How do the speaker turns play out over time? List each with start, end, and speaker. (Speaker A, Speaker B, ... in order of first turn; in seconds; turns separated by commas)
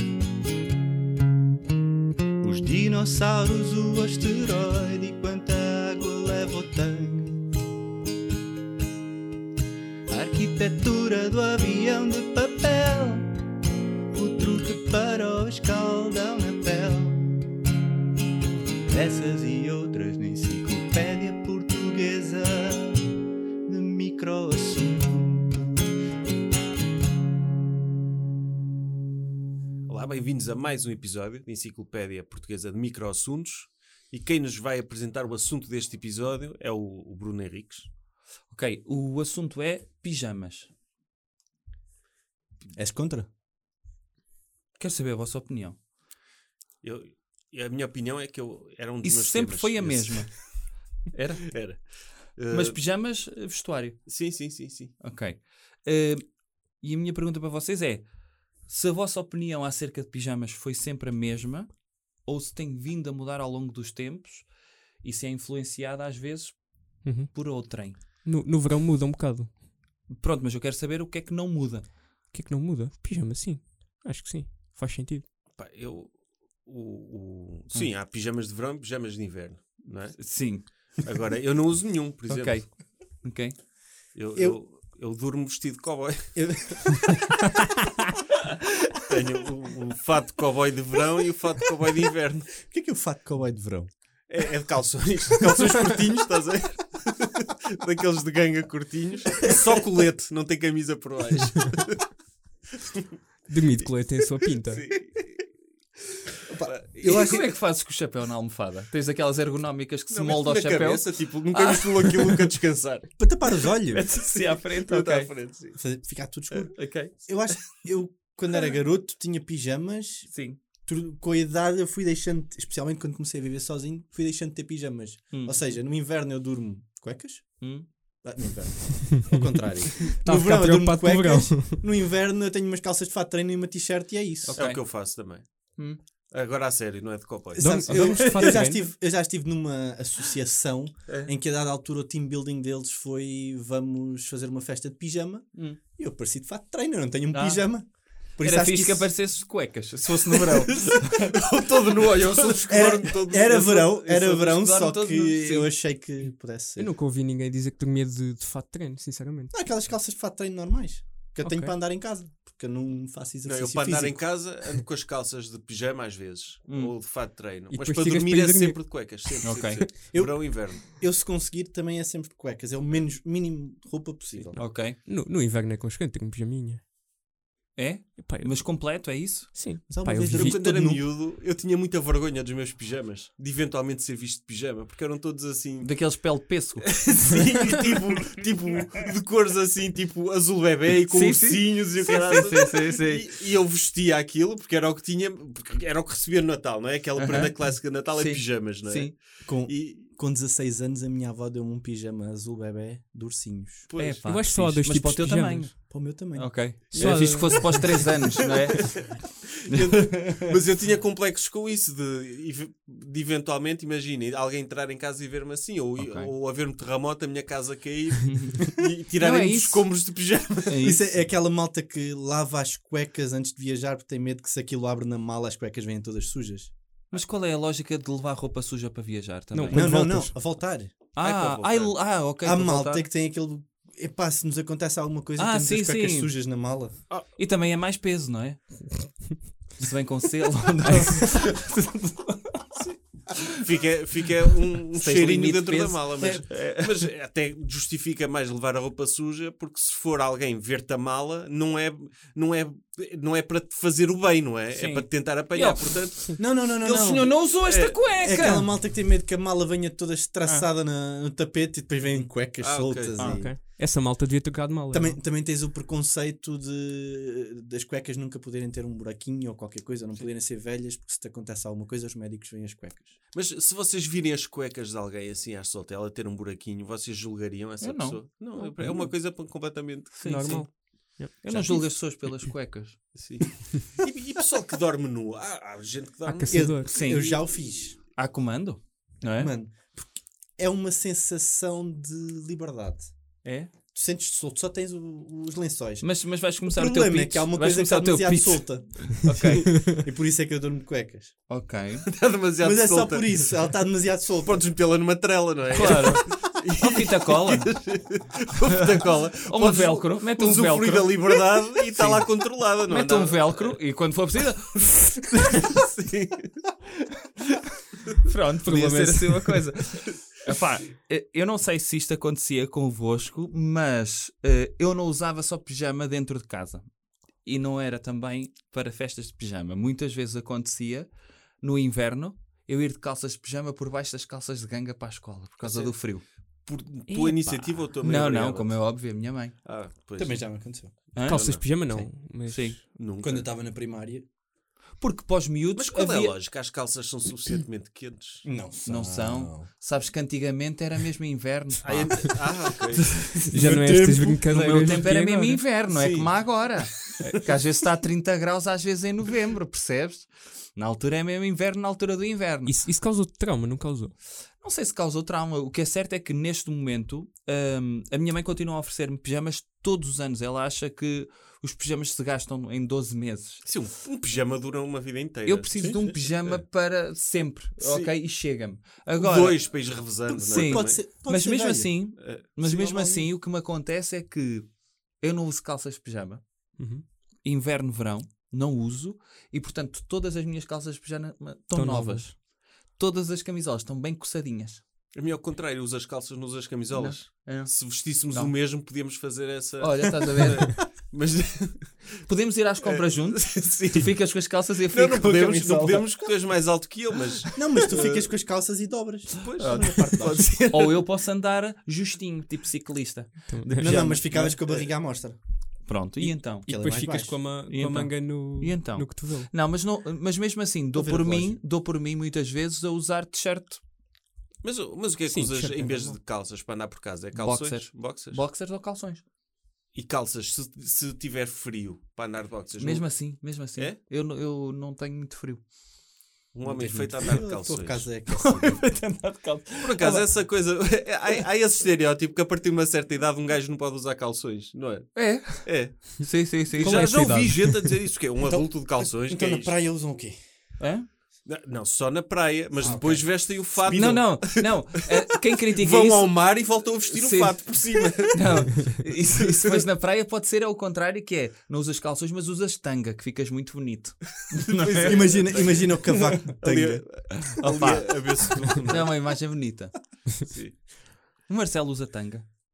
Speaker A: 2.4-7.5, Speaker A: 10.1-13.3, Speaker A: 14.1-17.3, Speaker A: 18.9-23.1, Speaker A: 23.6-25.8, Speaker B: 29.9-37.9, Speaker C: 38.5-40.7, Speaker D: 42.7-43.3, Speaker C: 44.8-45.8, Speaker B: 46.8-50.4, Speaker C: 49.0-51.5, Speaker B: 51.5-52.8, Speaker C: 52.5-54.1, Speaker B: 54.1-55.0, Speaker C: 55.0-64.5, Speaker C: 65.0-68.0, Speaker E: 67.0-67.3, Speaker E: 68.2-69.5, Speaker C: 70.1-71.9, Speaker E: 72.3-75.2, Speaker B: 75.5-82.8, Speaker C: 80.2-80.7, Speaker C: 82.3-83.6, Speaker B: 84.1-86.5, Speaker D: 86.3-87.3, Speaker B: 89.0-92.5, Speaker D: 92.7-93.9, Speaker B: 94.3-102.1, Speaker E: 103.5-104.9, Speaker B: 104.6-105.5, Speaker D: 106.5-107.5, Speaker B: 106.6-107.4, Speaker C: 107.0-112.4, Speaker B: 110.1-113.1, Speaker D: 113.2-114.1, Speaker C: 113.9-115.3, Speaker B: 114.8-115.8, Speaker D: 115.8-134.6, Speaker C: 116.7-117.1, Speaker C: 120.3-120.6, Speaker C: 125.3-125.6, Speaker C: 127.6-127.9, Speaker E: 129.0-129.3, Speaker E: 130.2-131.8, Speaker C: 134.4-135.1, Speaker B: 134.6-138.0, Speaker E: 137.6-138.9, Speaker D: 137.6-149.2, Speaker C: 145.5-145.8, Speaker C: 147.3-147.7, Speaker C: 148.4-151.2, Speaker B: 150.4-154.4, Speaker D: 152.7-156.9, Speaker C: 154.3-155.8, Speaker E: 156.8-159.5, Speaker D: 159.5-164.8, Speaker E: 161.4-161.7, Speaker B: 163.4-170.8, Speaker E: 167.7-169.9, Speaker C: 169.4-169.8, Speaker D: 170.1-174.7, Speaker C: 174.6-175.0, Speaker E: 174.6-176.8, Speaker C: 177.8-179.8, Speaker E: 178.2-180.6, Speaker D: 179.9-181.0, Speaker B: 180.3-200.1, Speaker C: 185.8-187.1, Speaker C: 191.1-193.3, Speaker C: 197.2-199.2, Speaker D: 199.4-203.9, Speaker B: 203.9-204.2, Speaker C: 204.0-209.2, Speaker E: 204.2-205.7, Speaker D: 205.9-206.9, Speaker E: 206.9-208.1, Speaker B: 208.8-220.8, Speaker C: 209.7-210.4, Speaker C: 216.0-216.3, Speaker C: 218.2-219.9, Speaker C: 220.7-221.0, Speaker D: 220.8-226.7, Speaker C: 227.1-229.8, Speaker E: 229.5-230.3, Speaker D: 229.7-230.9, Speaker C: 231.2-233.1, Speaker B: 231.2-232.1, Speaker D: 232.4-237.0, Speaker C: 235.4-236.3, Speaker C: 237.4-242.6, Speaker B: 243.6-256.2, Speaker C: 244.9-246.9, Speaker C: 254.7-258.7, Speaker D: 256.4-257.6, Speaker B: 257.6-258.1, Speaker D: 258.2-263.6, Speaker B: 262.6-263.3, Speaker E: 263.2-265.2, Speaker D: 264.9-273.1, Speaker B: 273.3-280.3, Speaker C: 277.8-278.2, Speaker E: 278.6-279.1, Speaker C: 280.1-283.1, Speaker E: 280.2-281.8, Speaker D: 281.5-281.8, Speaker B: 283.1-286.8, Speaker E: 286.2-287.1, Speaker D: 286.5-288.0, Speaker C: 286.8-289.5, Speaker D: 289.4-293.1, Speaker C: 293.4-293.7, Speaker D: 293.9-301.3, Speaker C: 296.0-299.7, Speaker C: 301.5-302.0, Speaker B: 302.1-303.4, Speaker D: 302.6-304.7, Speaker B: 304.4-313.8, Speaker C: 305.7-307.8, Speaker C: 309.4-311.4, Speaker C: 311.9-312.3, Speaker C: 312.9-315.6, Speaker B: 315.5-316.6, Speaker C: 318.2-326.9, Speaker E: 318.6-319.5, Speaker C: 327.4-336.2, Speaker B: 335.6-339.0, Speaker E: 337.1-337.8, Speaker C: 338.0-339.6, Speaker B: 339.6-340.5, Speaker D: 340.2-341.0, Speaker B: 341.1-341.9, Speaker C: 341.1-342.8, Speaker E: 341.2-342.9, Speaker B: 342.9-343.5, Speaker D: 343.2-344.2, Speaker C: 345.0-346.4, Speaker B: 345.8-348.5, Speaker D: 348.4-349.7, Speaker C: 348.8-352.5, Speaker B: 351.8-353.2, Speaker C: 353.1-362.8, Speaker E: 353.5-355.6, Speaker D: 353.6-354.4, Speaker B: 355.9-357.4, Speaker E: 362.6-364.1, Speaker C: 364.5-373.6, Speaker B: 373.6-376.6, Speaker C: 375.4-379.6, Speaker B: 377.8-378.1, Speaker B: 379.1-381.0, Speaker D: 380.3-382.1, Speaker C: 380.5-386.4, Speaker B: 382.2-382.5, Speaker D: 382.6-383.3, Speaker E: 386.8-387.0, Speaker C: 387.4-394.8, Speaker E: 391.7-392.3, Speaker B: 395.1-402.1, Speaker C: 396.9-398.5, Speaker C: 399.8-400.8, Speaker C: 402.2-406.1, Speaker B: 402.8-404.3, Speaker B: 404.9-408.3, Speaker D: 407.6-410.7, Speaker B: 409.4-410.9, Speaker C: 409.6-414.9, Speaker E: 413.5-413.9, Speaker D: 413.7-415.4, Speaker C: 415.8-416.7, Speaker E: 416.2-419.5, Speaker D: 416.4-417.4, Speaker C: 417.7-423.8, Speaker D: 420.9-421.6, Speaker B: 424.6-428.4, Speaker E: 425.2-426.2, Speaker C: 427.3-429.2, Speaker B: 429.9-434.0, Speaker C: 432.8-435.6, Speaker B: 436.5-438.1, Speaker C: 436.7-437.4, Speaker D: 436.7-438.9, Speaker C: 438.3-440.5, Speaker B: 439.8-449.8, Speaker C: 445.1-447.5, Speaker E: 446.8-448.0, Speaker D: 448.4-450.4, Speaker C: 450.8-451.1, Speaker B: 451.4-455.1, Speaker D: 452.8-454.2, Speaker C: 453.9-465.6, Speaker B: 455.7-459.9, Speaker B: 464.7-469.3, Speaker D: 465.1-467.3, Speaker C: 467.6-469.9, Speaker B: 470.4-470.8, Speaker C: 471.5-472.4